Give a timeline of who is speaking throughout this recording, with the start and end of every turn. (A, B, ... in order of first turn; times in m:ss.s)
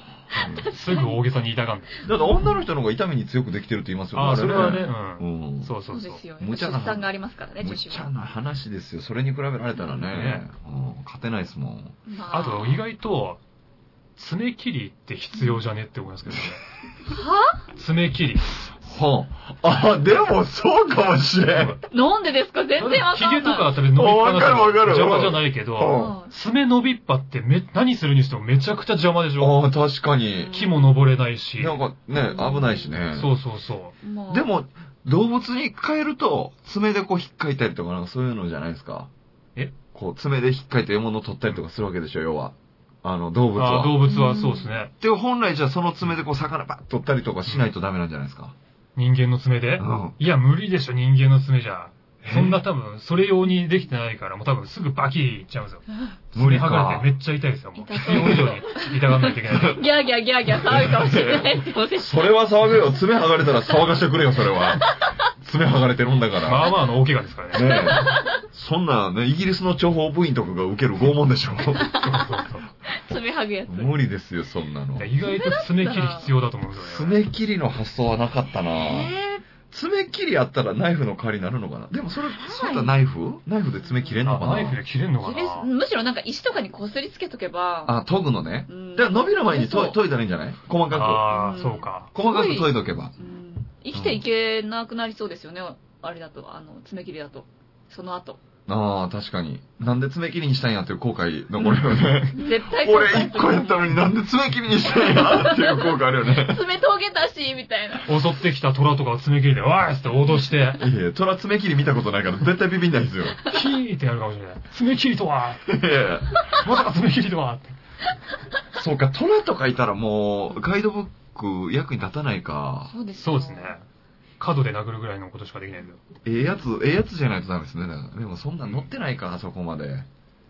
0:00.3-0:00.7 A
0:00.4-0:01.2 B
0:00.6-0:01.9 C
0:02.0-0:05.7 A
0:02.2-0:02.6 B
0:04.1-0:06.2 C
0:05.9-0:08.1 B
0:06.4-0:07.1 A
0:07.6-0:12.0 A
0:10.1-0:10.4 C
0:12.1-0:12.8 B
0:12.3-0:13.4 C
0:14.2-0:16.6 C
0:17.1-0:17.6 B
0:17.7-0:18.7 C
0:18.8-0:21.8 A
0:21.5-0:21.8 C
0:21.9-0:23.7 B
0:22.8-0:29.6 C
0:23.9-0:26.2 A
0:25.8-0:26.3 B
0:29.4-0:30.5 A
0:30.4-0:30.9 B
0:30.5-0:31.8 C
0:31.6-0:33.3 A
0:32.1-0:33.0 B
0:33.1-0:33.9 C
0:34.0-0:34.5 B
0:34.3-0:39.1 A
0:39.9-0:44.0 A
0:43.5-0:44.9 C
0:44.1-0:44.8 B
0:45.0-0:48.5 A
0:47.4-0:47.7 C
0:49.0-0:59.8 C
0:49.8-0:50.2 A
0:52.2-0:52.6 A
0:56.3-0:57.1 A
0:57.8-1:02.3 B
0:58.0-0:58.5 A
0:59.5-0:59.8 A
1:00.5-1:06.7 A
1:06.4-1:07.9 C
1:07.5-1:11.9 A
1:07.6-1:08.4 B
1:11.8-1:12.2 B
1:11.9-1:12.6 C
1:12.9-1:13.9 B
1:13.7-1:15.1 A
1:15.0-1:17.2 C
1:15.2-1:16.3 B
1:16.8-1:19.1 A
1:18.7-1:19.4 B
1:19.7-1:24.8 A
1:22.3-1:22.9 B
1:23.8-1:24.6 B
1:24.2-1:25.7 C
1:25.2-1:28.0 B
1:27.8-1:31.3 A
1:28.7-1:30.0 B
1:30.9-1:32.1 C
1:31.3-1:38.4 B
1:32.1-1:33.1 A
1:33.9-1:34.2 A
1:38.7-1:46.6 A
1:41.6-1:44.0 B
1:44.9-1:48.1 B
1:48.0-1:50.8 C
1:50.8-1:53.4 A
1:53.5-1:55.7 C
1:55.6-1:56.3 A
1:56.5-1:57.8 C
1:58.7-2:02.9 A
2:02.9-2:03.7 B
2:03.2-2:03.8 C
2:04.4-2:06.0 C
2:06.2-2:10.1 A